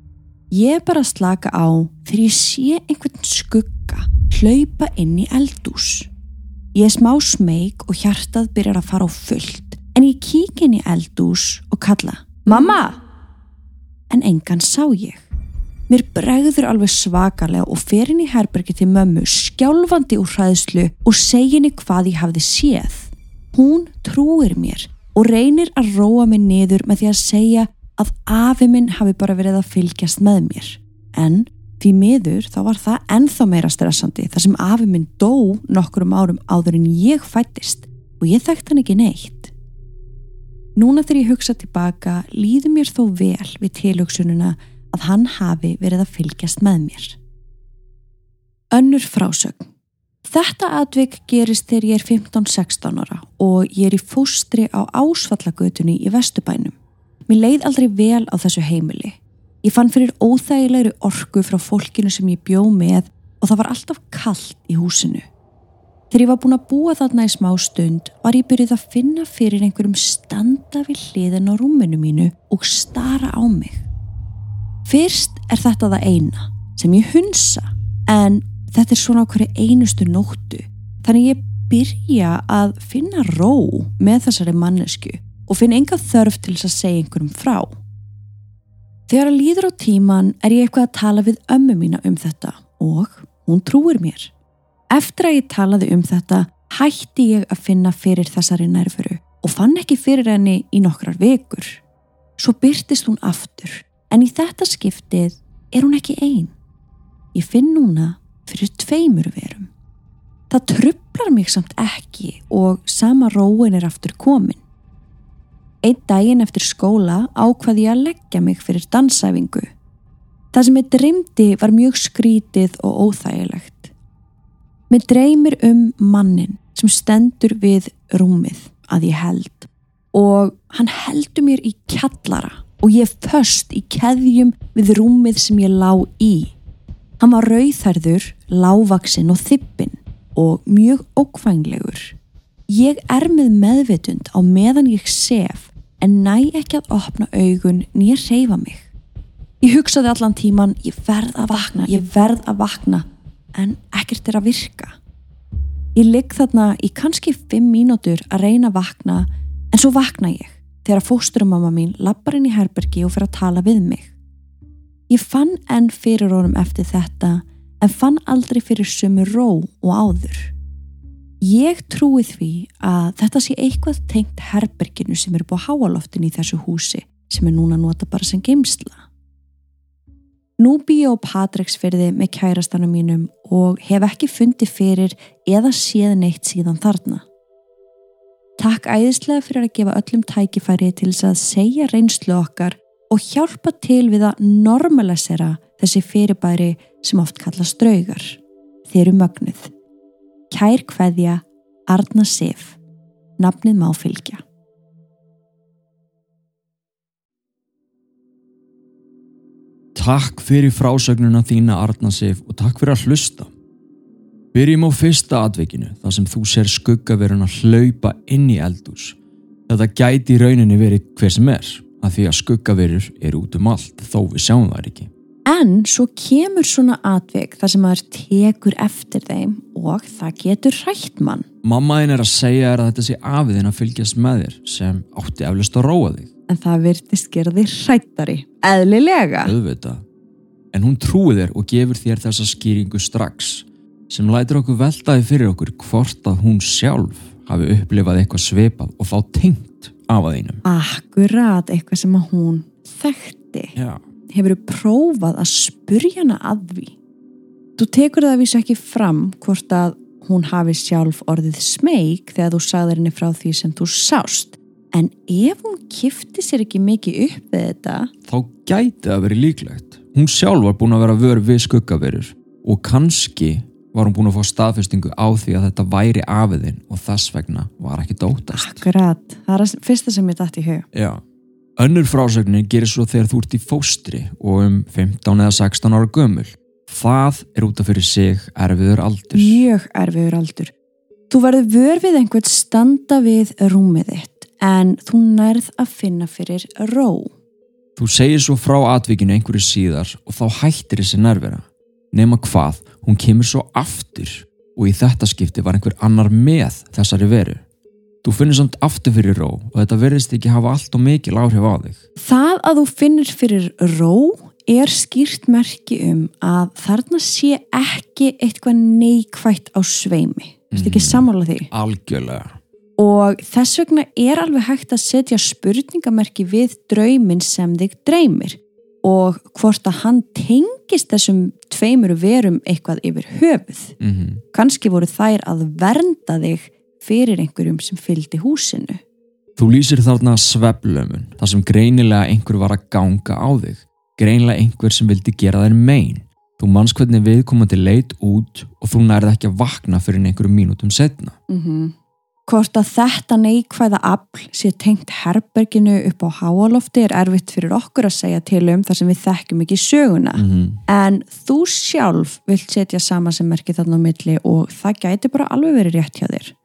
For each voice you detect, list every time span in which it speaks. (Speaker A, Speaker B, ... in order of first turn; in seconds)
Speaker A: 0.5-6.1, 6.7-13.0, 14.1-15.3, 15.9-39.5, 40.8-47.2, 48.7-49.7, 50.2-56.8, 57.3-65.3, 66.1-73.9, 74.8-87.8, 89.1-94.3, 94.9-101.8, 102.4-106.5, 107.3-109.7, 110.5-114.6, 115.8-119.7, 120.5-123.9, 124.9-136.5, 137.2-142.2, 142.7-148.9, 149.6-155.0, 155.9-164.1, 165.1-170.5, 171.4-179.1, 180.6-187.2, 188.6-199.7, 200.5-202.8, 203.4-204.4, 225.5-231.5, 236.5-239.5, 250.7-253.8, 254.3-257.0, 257.8-268.1, 278.5-280.9, 289.3-290.7, 291.3-297.3, 312.2-321.7, 323.0-333.9, 334.5-339.0, 351.5-351.9, 352.5-366.5
Speaker B: 209.9-213.5, 214.5-219.2, 219.7-225.1, 231.6-236.3, 239.4-240.0, 240.7-250.6, 253.8-254.0, 268.3-278.9, 280.9-281.2, 281.8-289.6, 298.0-307.6, 308.2-312.0, 320.7-322.6, 334.0-334.4, 339.6-351.4, 360.4-360.8